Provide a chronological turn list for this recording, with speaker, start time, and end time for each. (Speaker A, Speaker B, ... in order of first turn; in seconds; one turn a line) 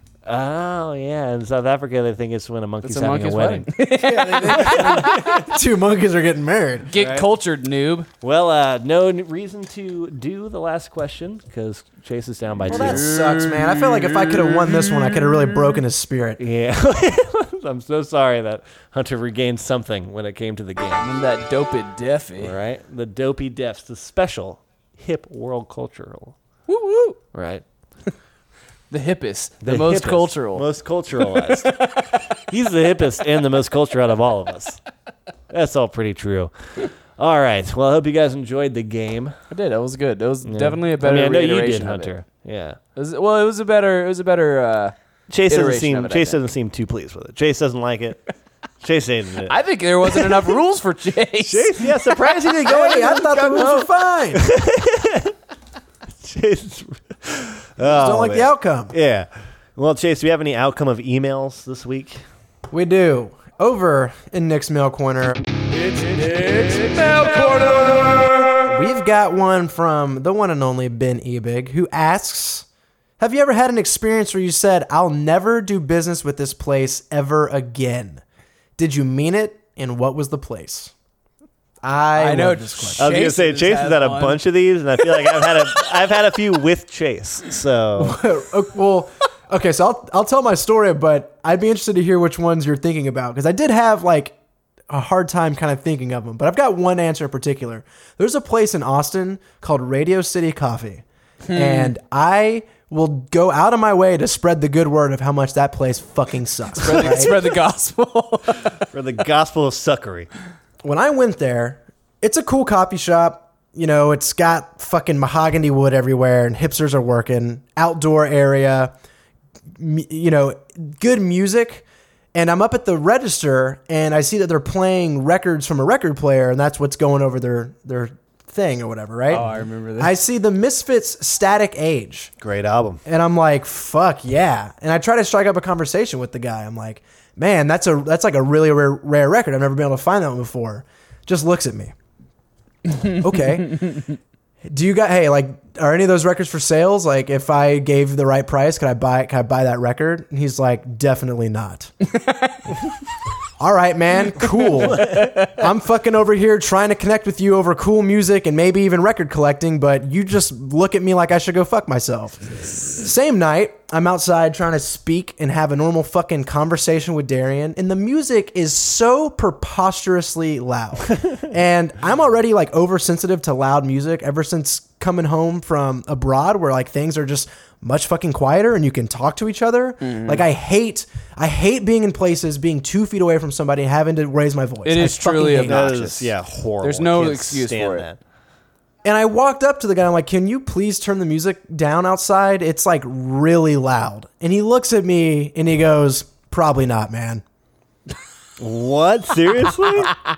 Speaker A: 0.2-3.7
Speaker B: 2.8-5.4
Speaker C: 4.0-6.9
Speaker A: 4.4-5.4
Speaker B: 6.9-8.1
Speaker A: 7.0-7.3
Speaker A: 8.2-13.2
Speaker C: 12.7-16.4
Speaker B: 12.7-15.4
Speaker A: 16.4-21.1
Speaker B: 21.0-22.5
Speaker A: 22.4-26.4
Speaker B: 26.7-27.2
Speaker A: 27.3-27.6
Speaker B: 28.9-30.7
Speaker A: 29.6-34.8
Speaker B: 31.2-32.4
Speaker A: 35.5-39.4
Speaker B: 39.5-42.1
Speaker A: 40.5-42.8
Speaker B: 43.0-44.9
Speaker A: 45.3-48.2
Speaker B: 45.5-46.4
Speaker A: 48.8-49.5
Speaker B: 49.5-52.4
Speaker A: 50.1-50.5
Speaker A: 51.4-55.4
Speaker C: 52.5-54.4
Speaker A: 56.2-62.2
Speaker C: 57.8-58.9
Speaker C: 62.7-65.4
Speaker B: 66.0-68.3
Speaker C: 68.6-72.7
Speaker C: 73.2-78.2
Speaker C: 78.8-80.9
Speaker C: 81.8-83.2
Speaker B: 82.2-84.4
Speaker A: 83.0-88.2
Speaker C: 88.0-94.4
Speaker C: 94.9-107.4
Speaker B: 101.4-101.9
Speaker B: 106.8-108.9
Speaker A: 108.8-110.3
Speaker C: 110.8-118.9
Speaker C: 119.8-132.3
Speaker B: 129.3-130.1
Speaker A: 132.4-133.0
Speaker C: 133.1-141.9
Speaker B: 142.9-143.2
Speaker C: 143.2-144.1
Speaker B: 143.8-144.0
Speaker C: 144.6-151.9
Speaker B: 152.1-152.6
Speaker C: 153.6-185.8
Speaker A: 154.8-155.2
Speaker B: 155.0-155.5
Speaker B: 180.0-180.4
Speaker B: 184.8-188.1
Speaker A: 185.6-188.2
Speaker C: 189.0-197.4
Speaker A: 198.6-200.2